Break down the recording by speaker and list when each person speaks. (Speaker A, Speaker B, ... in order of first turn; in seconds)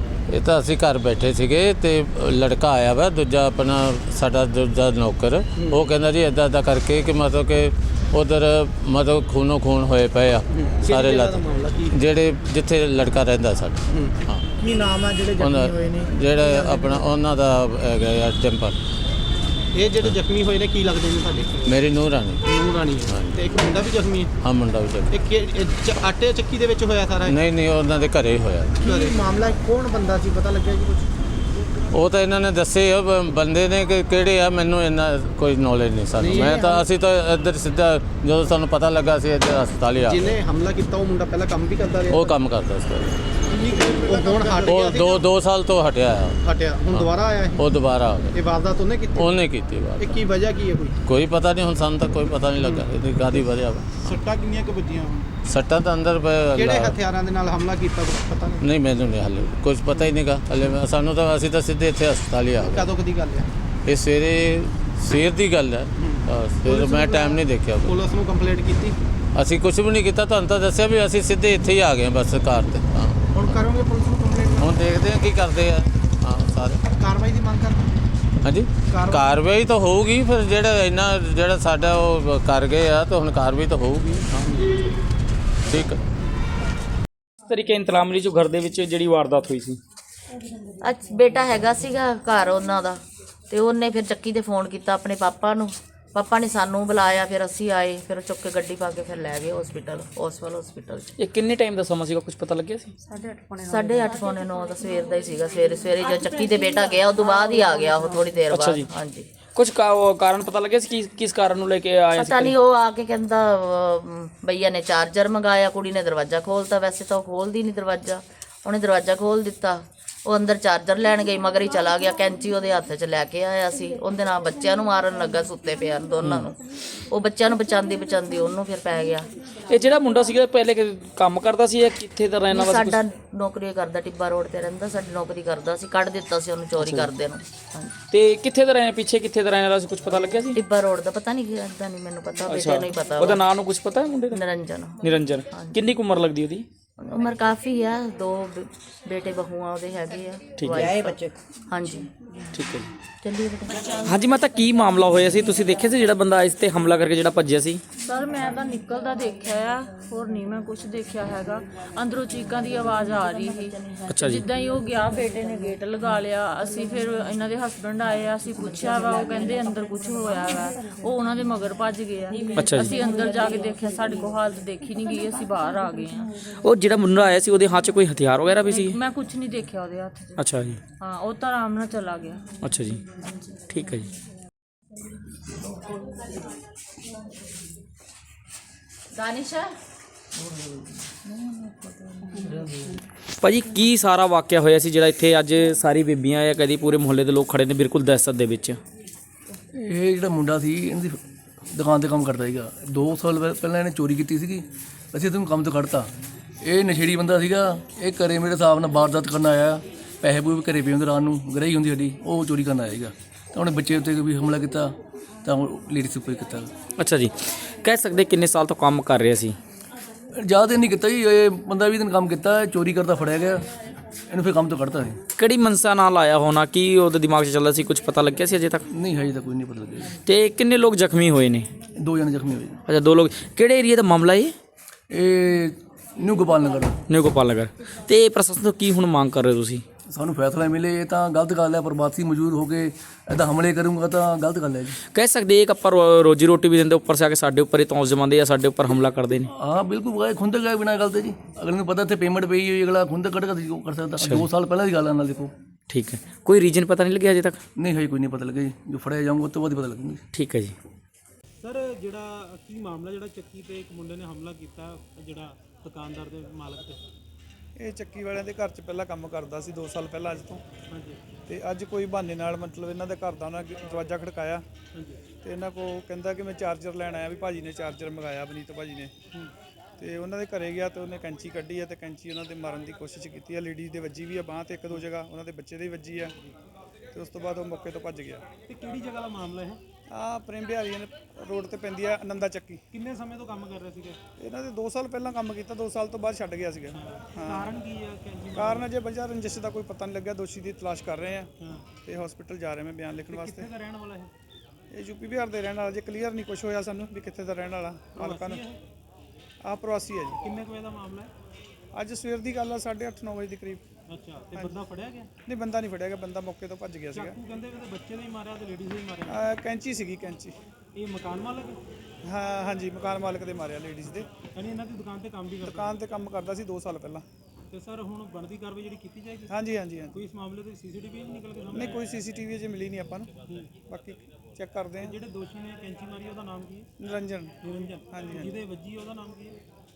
Speaker A: 0.3-14.4, 15.4-18.8, 21.6-22.4, 23.1-23.4, 24.4-25.1, 27.2-28.9, 31.9-40.3, 42.1-43.2, 44.6-48.4, 49.1-50.2, 51.0-54.1, 55.5-57.0, 58.6-62.9, 63.9-67.9, 69.3-73.6, 74.6-76.8, 78.4-84.8, 85.7-86.0
Speaker B: 10.5-11.9, 13.9-17.0, 19.7-21.6, 22.4-24.3, 25.1-27.3, 28.8-31.1, 36.2-36.8, 40.0-42.4, 43.5-45.3, 46.4-47.7, 48.3-49.4, 50.0-51.0, 52.6-53.5, 54.0-55.3, 56.5-58.6, 62.6-63.5, 66.1-69.0, 73.3-74.8, 76.9-77.9, 78.9-79.3
Speaker C: 44.1-44.5, 267.8-270.6, 271.5-274.6, 275.4-279.1, 280.0-286.3, 287.1-288.4, 290.1-292.8, 294.4-297.5, 298.6-301.5, 302.0-303.6, 304.9-308.6, 309.6-310.3, 311.9-313.8, 315.5-317.4, 319.3-320.5, 322.2-324.3, 325.8-327.2, 329.5-330.1, 331.8-333.3, 333.9-335.1, 337.0-337.5, 338.1-338.5
Speaker D: 87.5-89.8, 101.2-102.9, 108.5-108.8, 109.5-112.5, 129.7-133.0, 136.8-137.1, 138.1-140.6, 142.5-144.4, 145.0-146.6, 150.6-150.9, 152.5-152.9, 154.0-157.8, 164.1-164.4, 172.6-172.9, 176.6-178.9, 180.4-180.8, 182.6-183.0, 183.7-184.1, 193.4-198.8, 217.0-219.6, 225.4-228.8, 230.2-231.7, 232.9-234.5, 237.1-239.8, 245.1-249.5, 254.2-254.4, 255.9-257.6, 260.3-260.7
Speaker E: 90.8-101.1, 103.5-109.3, 112.1-129.3, 132.5-137.9, 140.5-143.5, 144.3-145.9, 147.0-152.1, 153.2-154.1
Speaker F: 158.0-176.3, 178.6-182.6
Speaker G: 199.7-206.1, 206.6-216.7, 220.3-223.7, 224.3-225.2, 228.9-230.2, 232.0-232.8, 235.1-237.0, 240.1-245.0, 249.5-255.5, 257.8-260.2
Speaker H: 261.6-267.0, 270.9-271.2, 274.9-275.2, 288.7-289.8, 292.9-294.2, 296.9-298.9, 301.6-301.9, 303.2-304.3, 308.1-308.8, 310.4-311.3, 314.1-315.3, 317.1-319.4, 320.9-321.8, 324.5-326.0, 327.7-329.5, 330.1-332.1, 333.4-333.8, 334.9-336.9, 337.6-339.6